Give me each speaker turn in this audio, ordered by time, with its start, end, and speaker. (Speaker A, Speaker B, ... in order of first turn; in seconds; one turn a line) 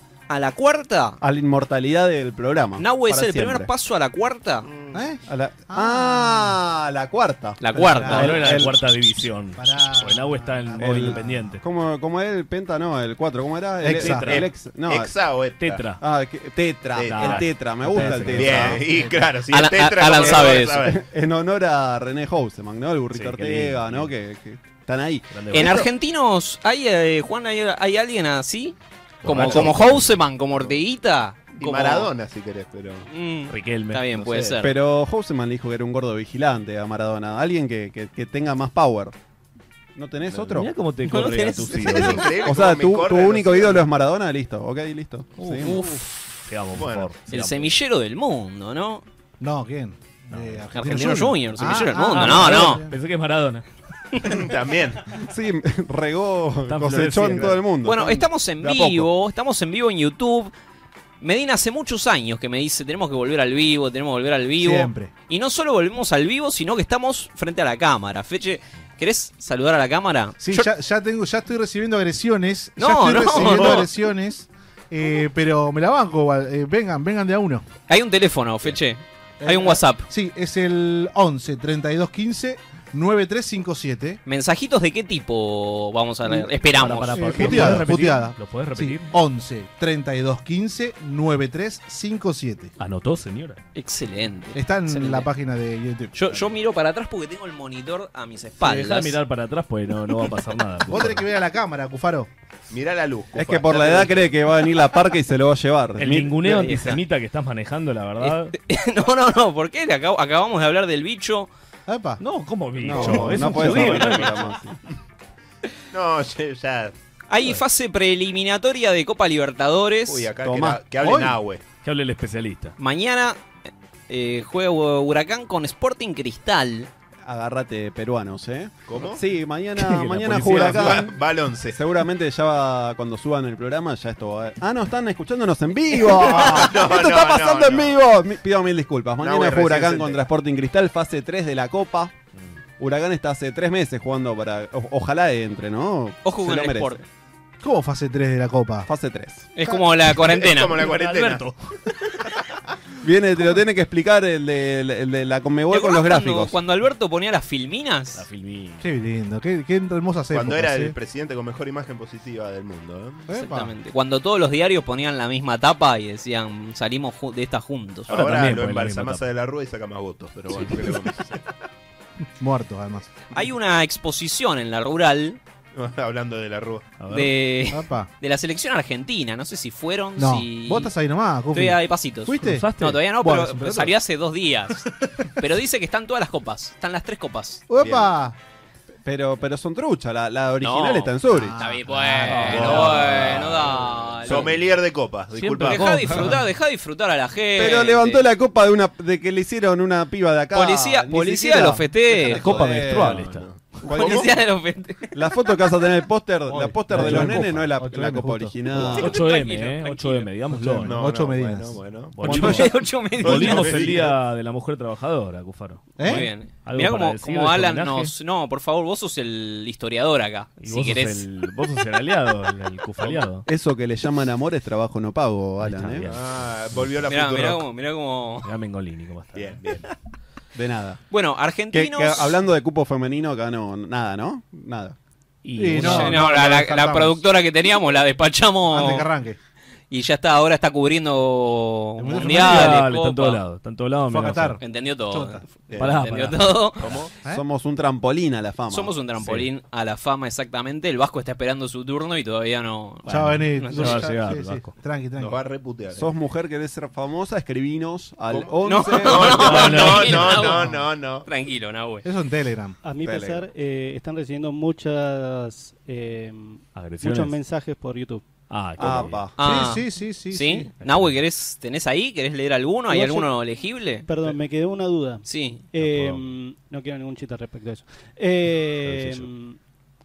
Speaker A: 0.3-1.2
Speaker B: 1.2-3.7
Speaker A: 2.8-4.7
Speaker C: 4.7-5.0
Speaker D: 4.9-6.6
Speaker B: 5.2-8.8
Speaker A: 7.6-8.4
Speaker D: 7.7-8.7
Speaker E: 8.1-11.6
Speaker D: 9.5-11.6
Speaker B: 10.8-15.1
Speaker D: 13.8-14.3
Speaker E: 13.9-14.4
Speaker C: 14.1-15.8
Speaker E: 15.6-16.0
Speaker B: 16.0-18.8
Speaker C: 16.9-21.0
Speaker E: 17.0-18.7
Speaker D: 17.8-19.3
Speaker A: 19.5-21.0
Speaker B: 20.2-25.3
Speaker E: 23.1-24.1
Speaker E: 25.3-25.9
Speaker A: 25.5-32.1
Speaker E: 29.2-30.2
Speaker C: 29.4-29.9
Speaker C: 30.5-30.8
Speaker C: 31.6-33.1
Speaker A: 33.1-34.7
Speaker E: 33.5-34.1
Speaker C: 34.1-34.6
Speaker B: 34.6-39.1
Speaker B: 39.9-40.7
Speaker E: 40.3-42.3
Speaker A: 41.0-42.2
Speaker C: 41.7-43.8
Speaker B: 42.4-45.8
Speaker A: 45.4-46.4
Speaker E: 46.5-47.7
Speaker C: 46.8-47.1
Speaker A: 47.3-49.0
Speaker D: 49.4-52.9
Speaker E: 50.3-50.7
Speaker A: 50.7-52.9
Speaker E: 52.1-53.6
Speaker C: 54.2-55.0
Speaker B: 55.2-59.1
Speaker E: 56.7-57.6
Speaker A: 57.8-60.5
Speaker A: 61.2-70.7
Speaker D: 64.5-65.1
Speaker D: 70.4-77.7
Speaker A: 72.8-73.9
Speaker A: 77.9-80.1
Speaker D: 79.4-84.2
Speaker A: 84.2-87.8
Speaker E: 86.7-89.1
Speaker D: 87.1-92.7
Speaker E: 92.8-93.6
Speaker A: 93.7-95.3
Speaker D: 94.5-96.1
Speaker A: 96.1-99.2
Speaker E: 98.6-101.3
Speaker D: 100.9-102.3
Speaker C: 102.7-104.3
Speaker B: 103.3-106.5
Speaker E: 106.0-108.5
Speaker A: 106.5-107.0
Speaker A: 108.2-111.5
Speaker D: 111.9-112.2
Speaker E: 112.2-114.4
Speaker B: 112.8-114.8
Speaker C: 113.5-114.3
Speaker C: 115.9-116.9
Speaker A: 117.3-120.3
Speaker C: 120.1-121.6
Speaker B: 120.4-120.8
Speaker D: 121.0-121.4
Speaker E: 121.8-122.8
Speaker A: 122.8-123.4
Speaker A: 124.1-126.9
Speaker B: 127.2-131.1
Speaker C: 128.9-129.2
Speaker E: 129.8-131.1
Speaker C: 130.4-131.8
Speaker B: 131.7-142.1
Speaker C: 136.1-137.9
Speaker C: 139.2-140.2
Speaker B: 142.8-147.0
Speaker A: 146.2-147.0
Speaker D: 147.6-148.9
Speaker B: 148.8-149.5
Speaker A: 149.6-150.8
Speaker C: 150.0-151.4
Speaker E: 150.7-151.7
Speaker B: 153.0-156.6
Speaker A: 155.7-158.2
Speaker E: 158.2-158.9
Speaker D: 158.8-160.9
Speaker C: 160.3-163.3
Speaker D: 163.3-163.7
Speaker A: 163.3-168.1
Speaker C: 168.1-171.5
Speaker E: 168.1-169.2
Speaker E: 170.5-170.9
Speaker D: 172.4-173.1
Speaker A: 173.3-175.4
Speaker C: 175.7-176.9
Speaker E: 177.0-177.3
Speaker A: 177.1-180.9
Speaker D: 177.7-178.1
Speaker D: 180.2-183.9
Speaker A: 181.5-187.6
Speaker E: 182.4-183.0
Speaker D: 187.7-188.3
Speaker C: 187.8-188.1
Speaker B: 189.0-191.6
Speaker A: 190.6-194.6
Speaker D: 191.2-192.5
Speaker E: 192.2-194.5
Speaker C: 192.4-193.6
Speaker C: 194.2-196.0
Speaker E: 195.4-196.4
Speaker A: 195.5-198.2
Speaker D: 195.9-196.3
Speaker B: 197.6-203.2
Speaker A: 200.5-202.4
Speaker E: 202.2-203.4
Speaker C: 202.7-204.3
Speaker B: 203.8-204.3
Speaker A: 203.8-205.1
Speaker B: 205.1-209.2
Speaker D: 206.5-208.9
Speaker E: 206.9-207.7
Speaker A: 208.8-210.3
Speaker E: 209.0-211.0
Speaker D: 210.5-211.9
Speaker C: 210.8-214.1
Speaker E: 212.1-218.1
Speaker A: 212.2-213.8
Speaker D: 216.0-216.3
Speaker A: 216.0-221.2
Speaker E: 220.6-223.4
Speaker C: 223.0-223.3
Speaker B: 223.4-226.1
Speaker E: 225.6-226.9
Speaker C: 226.0-227.6
Speaker A: 227.1-228.5
Speaker E: 228.4-229.6
Speaker C: 229.3-229.9
Speaker B: 230.5-231.0
Speaker A: 231.1-232.4
Speaker B: 231.7-234.9
Speaker E: 235.4-236.2
Speaker D: 235.6-237.2
Speaker A: 235.8-239.1
Speaker D: 238.7-239.4
Speaker A: 239.9-243.4
Speaker D: 242.0-242.8
Speaker E: 242.3-244.6
Speaker D: 244.1-245.4
Speaker A: 244.6-246.9
Speaker C: 245.7-246.0
Speaker E: 245.8-246.7
Speaker C: 246.8-247.1
Speaker B: 247.3-248.9
Speaker A: 248.7-254.0
Speaker E: 249.2-249.5
Speaker D: 253.1-255.4
Speaker E: 253.1-254.7
Speaker C: 255.2-256.1
Speaker B: 255.9-259.8
Speaker C: 258.3-261.3
Speaker A: 258.6-260.7
Speaker E: 259.5-260.4
Speaker D: 260.4-260.8
Speaker A: 261.2-262.1
Speaker D: 262.0-262.8
Speaker F: 262.8-268.2
Speaker B: 263.0-263.4
Speaker E: 266.7-267.4
Speaker E: 268.5-269.3
Speaker B: 268.8-269.4
Speaker D: 269.4-270.7
Speaker A: 269.4-274.1
Speaker E: 270.8-271.2
Speaker F: 272.9-273.3
Speaker F: 274.1-279.6
Speaker A: 275.2-275.6
Speaker E: 275.8-276.4
Speaker E: 278.8-279.3